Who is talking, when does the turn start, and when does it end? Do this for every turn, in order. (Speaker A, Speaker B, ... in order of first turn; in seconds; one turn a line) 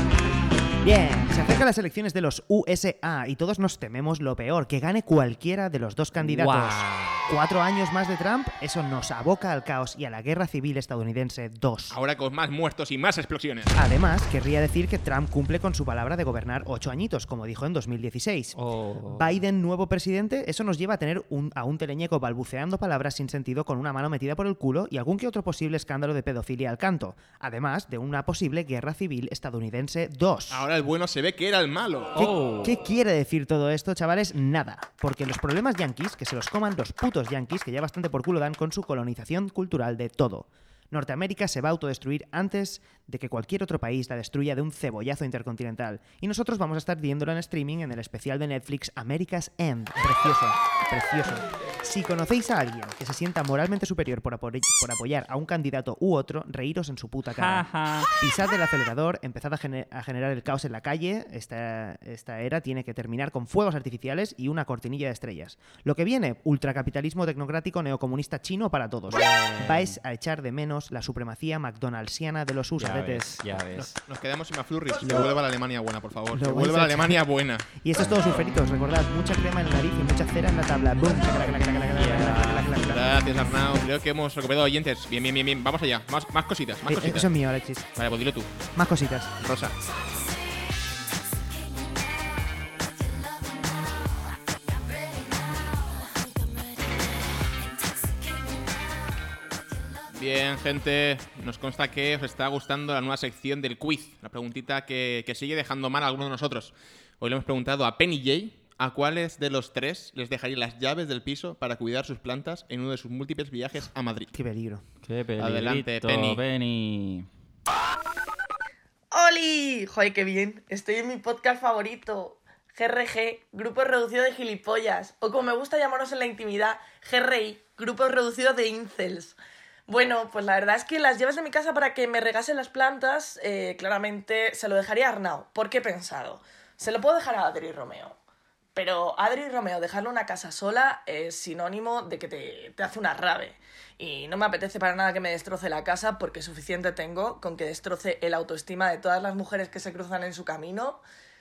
Speaker A: 0.8-12.0
Speaker B: 6.2-7.3
Speaker C: 11.9-13.8
Speaker A: 13.8-18.6
Speaker B: 18.6-19.3
Speaker A: 19.1-30.7
Speaker C: 30.5-32.3
Speaker A: 32.1-73.4
Speaker B: 32.2-32.7
Speaker B: 57.4-58.1
Speaker B: 69.2-69.9
Speaker B: 72.8-74.0
Speaker C: 73.8-77.7
Speaker A: 75.0-75.3
Speaker A: 76.3-83.2
Speaker B: 82.0-82.7
Speaker C: 82.9-87.3
Speaker A: 86.9-87.9
Speaker C: 88.0-88.6
Speaker A: 88.8-89.3
Speaker C: 89.4-89.8
Speaker C: 100.1-114.3
Speaker A: 114.3-114.8
Speaker B: 115.0-117.3
Speaker C: 115.4-116.4
Speaker D: 119.1-129.3
Speaker D: 129.9-138.2
Speaker D: 138.8-151.0